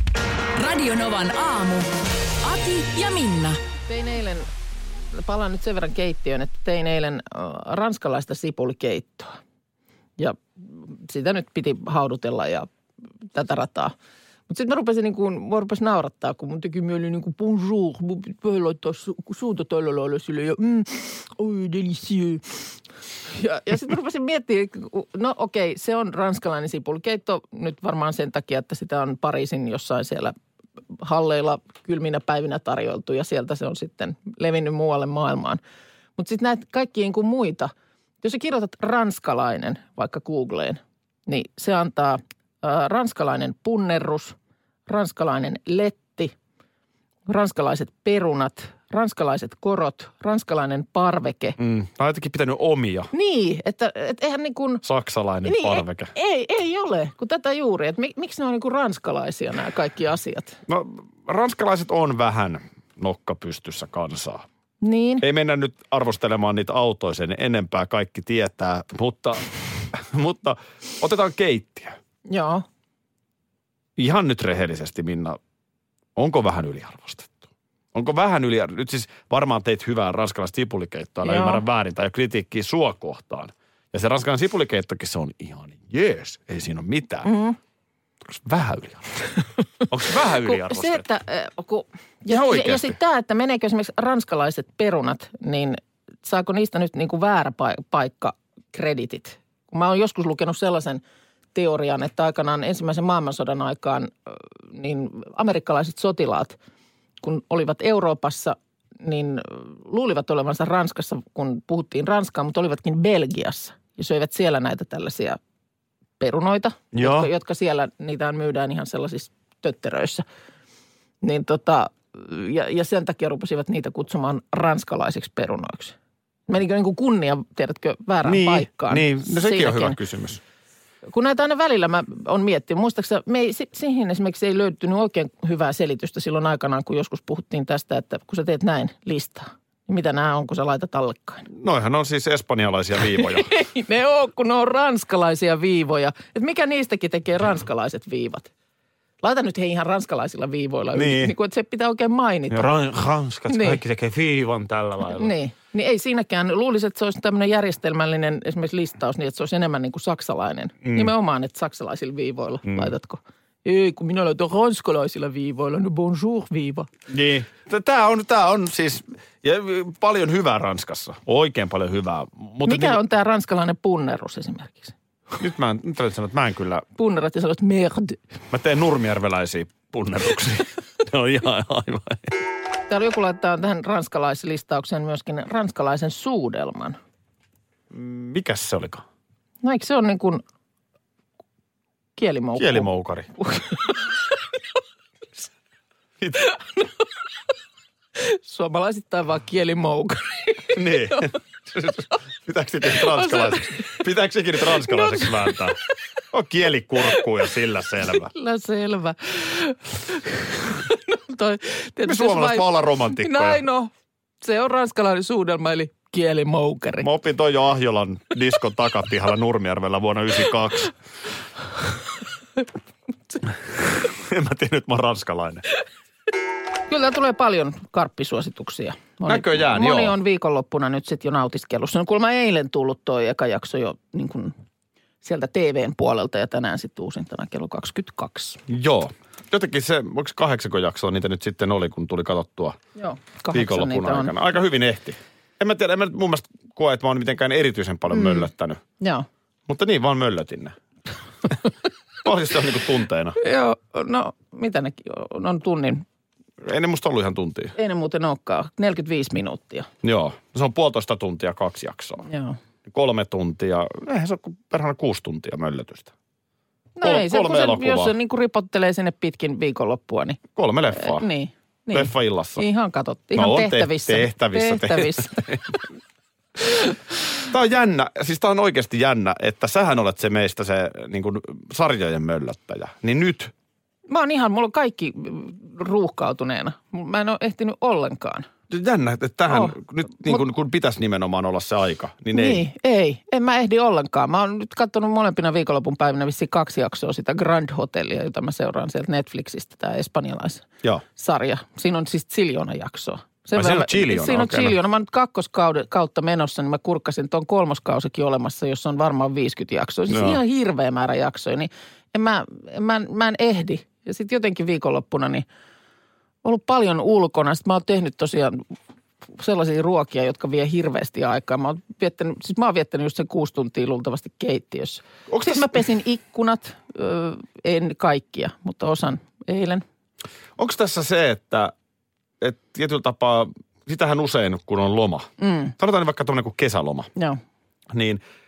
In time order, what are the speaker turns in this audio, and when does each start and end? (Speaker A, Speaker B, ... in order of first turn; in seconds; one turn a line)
Speaker A: 0.6-1.9
Speaker A: 2.4-3.6
Speaker B: 3.9-4.5
Speaker B: 5.1-9.4
Speaker B: 10.2-12.7
Speaker B: 13.3-13.9
Speaker B: 14.5-22.7
Speaker B: 23.3-30.4
Speaker B: 31.0-35.6
Speaker B: 36.2-37.7
Speaker B: 38.2-44.4
Speaker B: 44.9-46.3
Speaker B: 47.3-51.6
Speaker C: 51.6-53.1
Speaker B: 53.1-54.8
Speaker C: 54.8-56.1
Speaker B: 55.4-60.6
Speaker C: 60.7-64.5
Speaker B: 64.8-65.2
Speaker C: 65.2-72.0
Speaker B: 72.3-72.7
Speaker C: 74.0-75.4
Speaker C: 76.2-87.3
Speaker B: 81.2-81.6
Speaker B: 87.2-87.6
Speaker C: 88.3-89.3
Speaker C: 89.9-91.0
Speaker B: 90.3-101.0
Speaker C: 92.3-93.0
Speaker B: 101.5-106.6
Speaker B: 107.2-115.4
Speaker B: 116.2-120.2
Speaker C: 116.9-117.3
Speaker B: 121.2-126.0
Speaker B: 126.5-130.0
Speaker C: 128.2-130.4
Speaker B: 131.1-141.5
Speaker C: 141.5-143.5
Speaker B: 143.2-148.5
Speaker B: 149.2-152.7
Speaker C: 150.9-151.3
Speaker C: 152.5-155.3
Speaker B: 153.5-153.8
Speaker B: 155.1-166.9
Speaker C: 160.8-161.1
Speaker C: 162.7-162.9
Speaker C: 167.1-173.0
Speaker B: 172.7-174.9
Speaker C: 175.4-176.8
Speaker B: 177.0-178.2
Speaker C: 178.5-182.4
Speaker B: 182.9-187.0
Speaker C: 187.9-189.1
Speaker B: 189.6-190.4
Speaker B: 192.2-193.9
Speaker C: 192.6-193.3
Speaker B: 198.2-201.3
Speaker C: 200.7-205.8
Speaker B: 202.9-203.9
Speaker B: 204.9-205.3
Speaker C: 206.3-208.3
Speaker B: 208.3-213.9
Speaker C: 212.0-213.6
Speaker B: 214.4-217.1
Speaker C: 217.0-220.9
Speaker C: 224.1-225.6
Speaker B: 226.9-234.5
Speaker C: 229.3-230.2
Speaker B: 235.2-238.6
Speaker C: 238.7-242.8
Speaker B: 243.0-244.3
Speaker C: 243.5-248.8
Speaker B: 248.1-248.5
Speaker B: 249.0-249.3
Speaker C: 249.7-250.8
Speaker C: 252.2-253.4
Speaker B: 253.4-256.1
Speaker C: 256.6-257.8
Speaker B: 257.8-259.9
Speaker C: 260.0-262.3
Speaker B: 262.3-262.6
Speaker C: 262.9-266.1
Speaker B: 267.0-270.4
Speaker C: 267.0-268.1
Speaker C: 270.6-271.3
Speaker B: 270.9-275.6
Speaker C: 271.9-272.7
Speaker C: 273.4-275.7
Speaker C: 277.4-283.5
Speaker B: 284.1-288.5
Speaker C: 288.7-292.6
Speaker B: 289.5-289.8
Speaker B: 292.3-315.5
Speaker C: 303.6-304.8
Speaker C: 310.1-310.4
Speaker B: 316.4-318.6
Speaker B: 319.4-329.8
Speaker C: 325.3-325.8
Speaker C: 330.6-331.7
Speaker C: 332.4-337.1
Speaker B: 335.4-335.7
Speaker C: 337.9-338.2